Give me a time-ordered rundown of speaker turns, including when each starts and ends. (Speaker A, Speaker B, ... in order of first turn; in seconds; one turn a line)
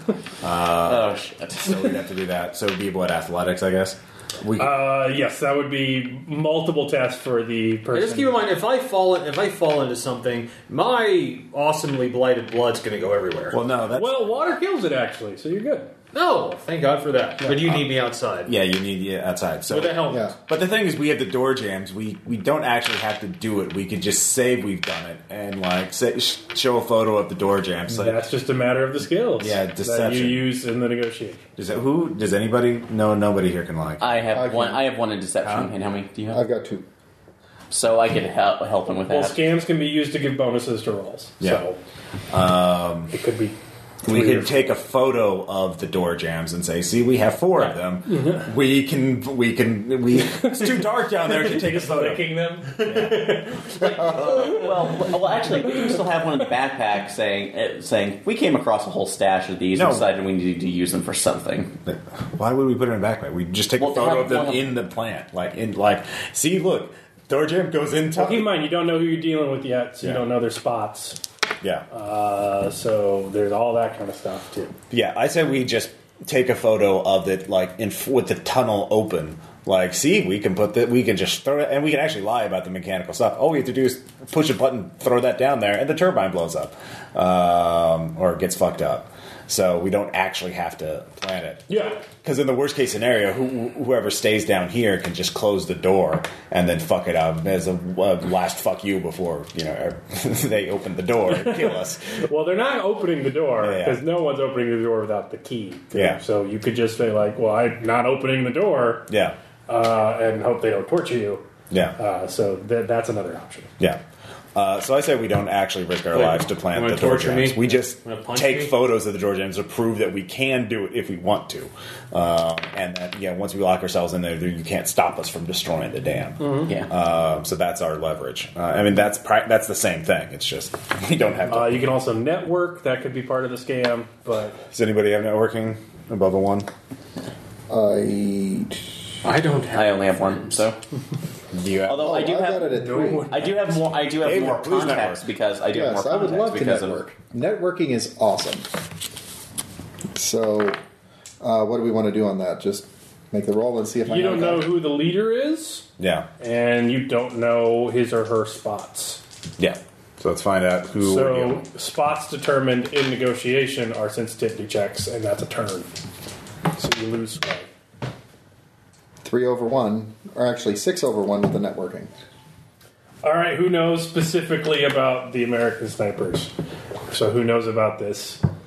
Speaker A: 0.4-4.8
Speaker B: 0.8-1.9
Speaker C: 4.6-8.4
Speaker D: 7.9-13.6
Speaker A: 13.5-14.4
Speaker C: 13.9-15.9
Speaker D: 16.1-18.5
Speaker A: 17.6-17.9
Speaker A: 18.4-28.2
Speaker D: 19.7-20.4
Speaker C: 27.9-31.4
Speaker A: 29.4-30.5
Speaker A: 31.6-34.1
Speaker B: 34.0-36.4
Speaker E: 34.3-34.8
Speaker A: 35.4-35.7
Speaker E: 36.3-36.9
Speaker B: 37.7-39.4
Speaker C: 39.1-41.8
Speaker A: 42.3-43.1
Speaker C: 43.1-44.6
Speaker A: 44.0-53.3
Speaker D: 51.2-54.7
Speaker C: 53.0-53.8
Speaker B: 54.0-61.8
Speaker A: 59.7-60.1
Speaker A: 61.9-68.5
Speaker B: 63.8-64.7
Speaker C: 68.1-71.2
Speaker C: 71.9-74.7
Speaker A: 74.9-102.0
Speaker C: 91.7-92.0
Speaker C: 101.3-109.1
Speaker A: 103.6-104.0
Speaker A: 105.9-106.2
Speaker A: 109.1-109.4
Speaker C: 109.7-111.4
Speaker C: 112.0-113.7
Speaker A: 114.5-131.8
Speaker D: 116.1-118.8
Speaker C: 126.4-126.7
Speaker C: 131.5-134.6
Speaker A: 134.7-136.7
Speaker E: 137.7-139.0
Speaker D: 139.2-140.7
Speaker B: 139.6-140.8
Speaker A: 141.5-142.2
Speaker B: 141.9-142.7
Speaker E: 141.9-143.3
Speaker C: 142.7-143.8
Speaker B: 143.3-147.0
Speaker A: 144.2-145.2
Speaker E: 145.7-148.7
Speaker E: 150.1-150.8
Speaker E: 151.4-154.7
Speaker C: 154.1-155.9
Speaker A: 156.0-156.3
Speaker C: 156.4-159.2
Speaker A: 159.6-161.6
Speaker C: 161.0-165.9
Speaker C: 166.8-167.7
Speaker E: 169.2-172.1
Speaker C: 173.2-176.5
Speaker C: 177.1-178.4